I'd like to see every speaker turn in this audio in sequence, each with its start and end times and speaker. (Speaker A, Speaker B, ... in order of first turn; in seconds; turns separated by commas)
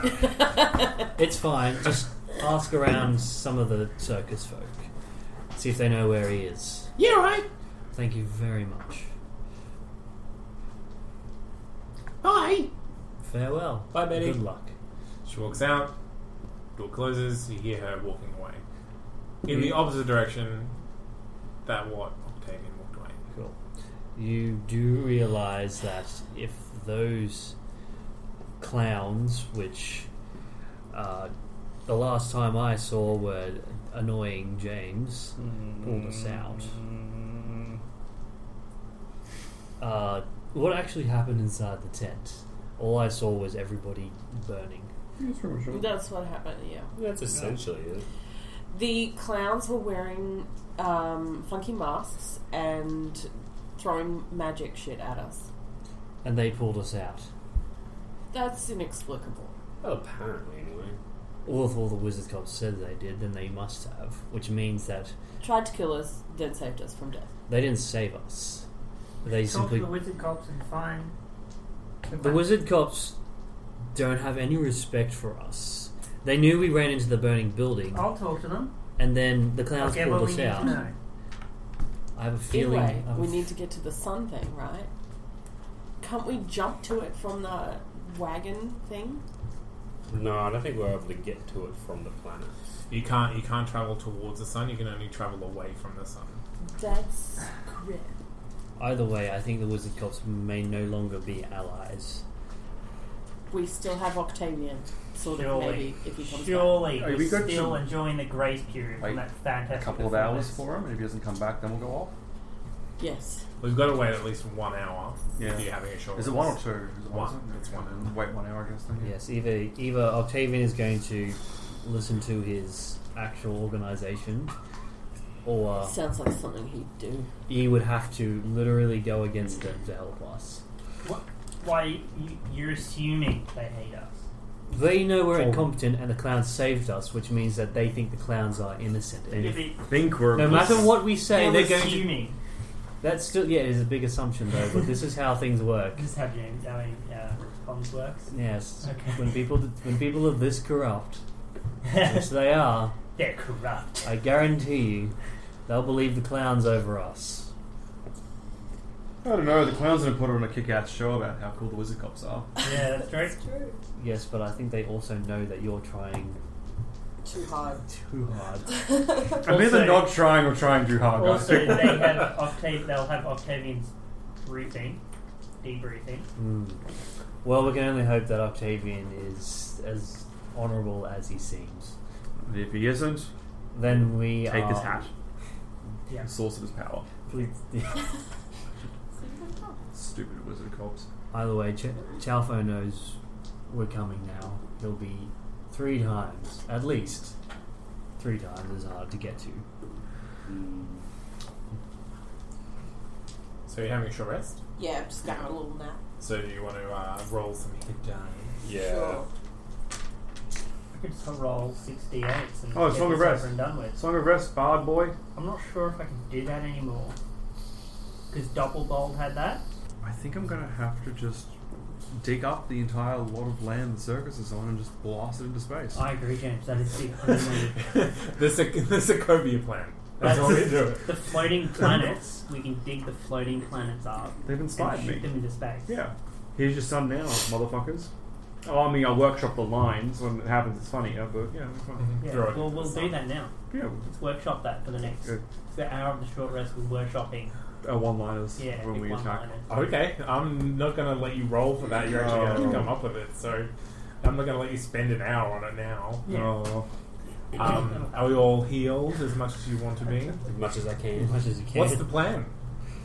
Speaker A: 0.2-0.7, Speaker B: 1.2-4.9, Speaker B: 5.5-6.9, Speaker C: 7.0-7.5, Speaker B: 7.9-9.1, Speaker C: 12.2-12.7, Speaker B: 13.2-14.7, Speaker D: 13.9-14.4, Speaker C: 15.3-15.9, Speaker C: 16.8-18.6, Speaker C: 19.4-20.7, Speaker B: 19.5-19.8, Speaker C: 21.6-23.2, Speaker B: 24.1-27.6, Speaker B: 28.6-30.1, Speaker B: 30.9-31.3, Speaker B: 31.9-36.8, Speaker B: 39.8-44.9, Speaker E: 45.2-45.9, Speaker A: 45.7-46.9, Speaker D: 47.0-48.0, Speaker A: 48.7-55.5, Speaker B: 56.2-57.3, Speaker A: 58.3-59.5, Speaker D: 59.8-61.0, Speaker B: 61.5-65.1, Speaker A: 65.4-67.3, Speaker B: 67.5-68.7, Speaker B: 69.2-69.9, Speaker F: 69.3-71.1, Speaker F: 72.1-72.6, Speaker B: 72.1-73.2, Speaker B: 73.9-78.1, Speaker F: 77.9-78.7, Speaker B: 79.0-80.8, Speaker F: 79.8-81.0, Speaker B: 82.2-83.5, Speaker A: 82.5-84.9, Speaker A: 86.0-89.2, Speaker D: 90.1-92.5, Speaker C: 92.9-96.4, Speaker A: 96.8-98.1, Speaker B: 98.8-102.2, Speaker A: 103.5-107.0, Speaker F: 105.3-110.6, Speaker E: 106.9-107.9, Speaker E: 109.0-112.1, Speaker A: 113.0-113.5, Speaker C: 113.6-118.1, Speaker E: 115.4-119.2, Speaker B: 119.0-124.5, Speaker B: 125.4-126.0, Speaker A: 125.8-127.3, Speaker B: 127.5-130.6, Speaker F: 131.0-134.2, Speaker B: 134.7-139.8, Speaker F: 139.3-140.6, Speaker E: 139.9-141.0, Speaker B: 140.3-142.1, Speaker F: 141.1-142.4, Speaker B: 143.0-146.0, Speaker F: 146.0-149.3, Speaker B: 148.3-151.2, Speaker F: 151.8-152.3, Speaker B: 152.0-153.0, Speaker F: 153.2-154.1, Speaker B: 154.0-155.2, Speaker B: 155.7-157.5, Speaker E: 159.2-162.5, Speaker F: 162.6-163.4, Speaker A: 163.2-163.8, Speaker B: 164.0-166.4, Speaker A: 167.2-167.8, Speaker B: 167.8-168.7, Speaker A: 168.7-169.5, Speaker F: 169.4-170.2, Speaker E: 169.4-172.3, Speaker F: 171.1-175.0, Speaker F: 175.6-176.3, Speaker B: 176.4-176.8, Speaker B: 177.4-182.0, Speaker E: 182.4-183.3, Speaker B: 183.7-185.1, Speaker E: 183.9-185.1, Speaker E: 186.2-187.1, Speaker B: 187.3-188.1, Speaker A: 189.2-189.8, Speaker E: 189.9-191.1, Speaker B: 191.3-197.3, Speaker B: 198.2-199.7, Speaker D: 200.5-201.0, Speaker C: 203.7-204.6, Speaker A: 204.8-206.0, Speaker C: 206.2-208.6, Speaker D: 208.6-209.2, Speaker A: 208.7-209.3, Speaker F: 210.9-214.0, Speaker E: 212.7-215.2, Speaker F: 215.3-217.2, Speaker F: 218.3-219.7, Speaker E: 220.0-221.5, Speaker E: 222.1-226.1, Speaker F: 225.9-227.8, Speaker C: 227.8-231.1, Speaker F: 230.2-236.0, Speaker E: 230.2-231.0, Speaker E: 234.4-238.1, Speaker E: 238.7-242.2, Speaker C: 242.0-243.1, Speaker F: 242.2-247.5, Speaker E: 243.7-244.1, Speaker E: 247.8-250.0, Speaker F: 248.6-249.7, Speaker C: 249.7-253.7, Speaker E: 252.1-252.9, Speaker C: 254.2-256.7, Speaker F: 256.3-256.6, Speaker E: 256.3-256.9, Speaker C: 257.6-260.4, Speaker F: 257.6-258.5, Speaker D: 260.5-261.5, Speaker B: 261.2-262.1, Speaker C: 261.7-262.6